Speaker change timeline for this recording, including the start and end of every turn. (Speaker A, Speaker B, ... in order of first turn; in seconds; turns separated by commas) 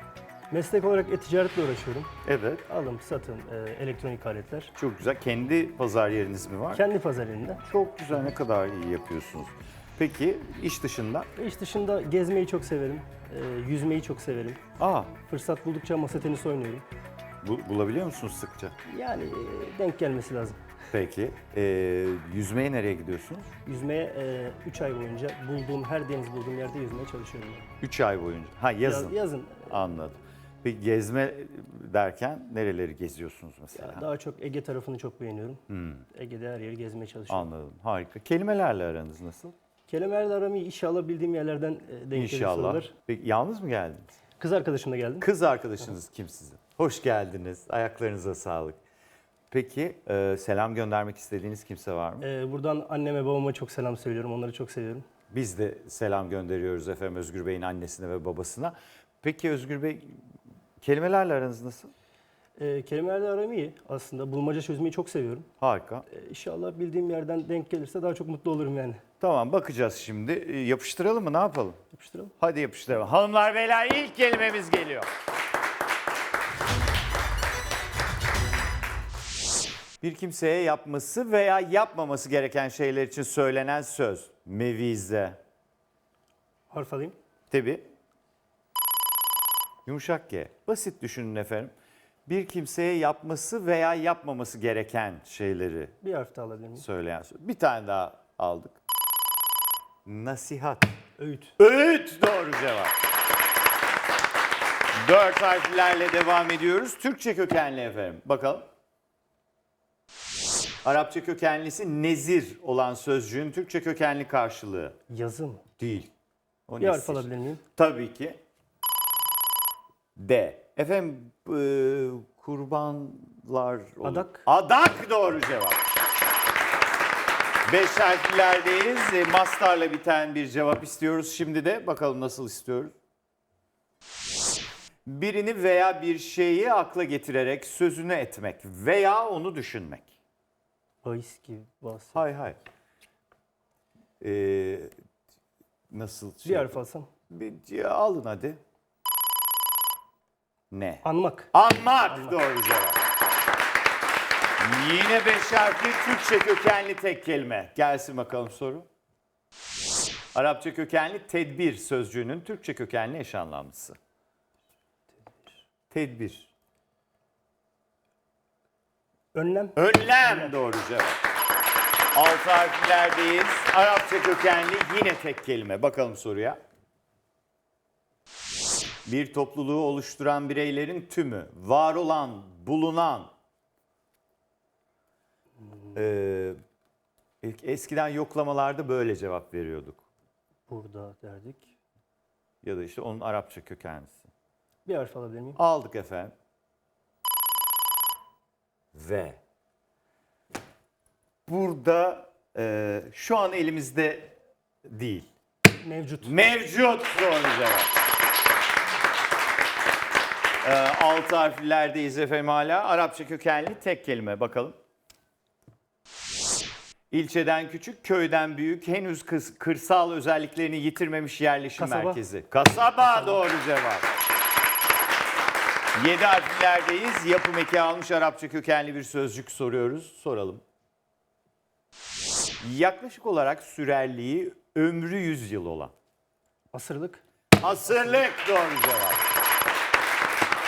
Speaker A: 0.5-2.1, Speaker B: 2.2-2.6, Speaker A: 2.7-4.7, Speaker B: 4.8-6.8, Speaker A: 6.7-7.6, Speaker B: 7.6-11.3, Speaker A: 11.4-14.6, Speaker B: 14.8-15.1, Speaker A: 15.3-16.8, Speaker B: 17.4-18.7, Speaker A: 18.8-20.6, Speaker B: 20.9-23.5, Speaker A: 23.6-27.7, Speaker B: 27.8-34.1, Speaker A: 28.8-29.7, Speaker A: 33.7-37.5, Speaker B: 35.7-36.0, Speaker B: 37.3-39.5, Speaker A: 39.9-42.9, Speaker B: 42.1-44.1, Speaker A: 44.4-45.3, Speaker B: 45.2-48.8, Speaker B: 49.5-52.2, Speaker A: 52.2-55.0, Speaker B: 55.3-60.2, Speaker B: 60.8-61.9, Speaker A: 62.6-65.5, Speaker B: 65.6-66.0, Speaker A: 66.1-69.0, Speaker B: 69.2-71.8, Speaker A: 71.9-72.3, Speaker B: 72.4-75.1, Speaker B: 80.0-85.4, Speaker A: 86.7-87.2, Speaker B: 87.5-87.8, Speaker B: 89.8-91.7, Speaker B: 92.2-95.9, Speaker A: 96.0-96.8, Speaker B: 96.8-98.8, Speaker B: 100.0-100.9, Speaker A: 101.2-101.5, Speaker B: 101.6-102.9, Speaker B: 105.0-108.7, Speaker B: 110.8-115.0, Speaker A: 115.1-115.6, Speaker B: 115.8-116.1, Speaker B: 116.7-118.4, Speaker A: 116.8-117.6, Speaker B: 120.2-125.8, Speaker A: 124.0-124.4, Speaker B: 127.7-132.9, Speaker B: 135.1-140.1, Speaker A: 141.0-142.2, Speaker B: 142.1-142.6, Speaker B: 144.2-144.9, Speaker B: 145.9-146.8, Speaker A: 146.4-147.1, Speaker B: 147.3-148.6, Speaker B: 150.7-153.0, Speaker A: 151.0-151.5, Speaker A: 152.1-152.4, Speaker B: 154.6-158.9, Speaker B: 160.3-164.0, Speaker B: 165.9-166.5, Speaker A: 169.3-170.5, Speaker B: 169.8-171.2, Speaker B: 172.1-176.6, Speaker B: 179.1-183.3, Speaker A: 185.6-186.0, Speaker B: 185.9-186.6, Speaker B: 187.4-190.0, Speaker A: 190.7-191.7, Speaker B: 192.6-194.3, Speaker A: 194.8-195.6, Speaker B: 195.6-196.3, Speaker B: 198.9-199.4, Speaker B: 201.5-205.3, Speaker A: 205.8-206.4, Speaker B: 206.2-207.9, Speaker B: 210.6-214.8, Speaker B: 217.1-224.1, Speaker A: 221.8-222.2, Speaker A: 223.0-223.4, Speaker B: 225.9-230.6, Speaker B: 232.6-235.9, Speaker A: 236.7-237.2, Speaker B: 237.6-239.2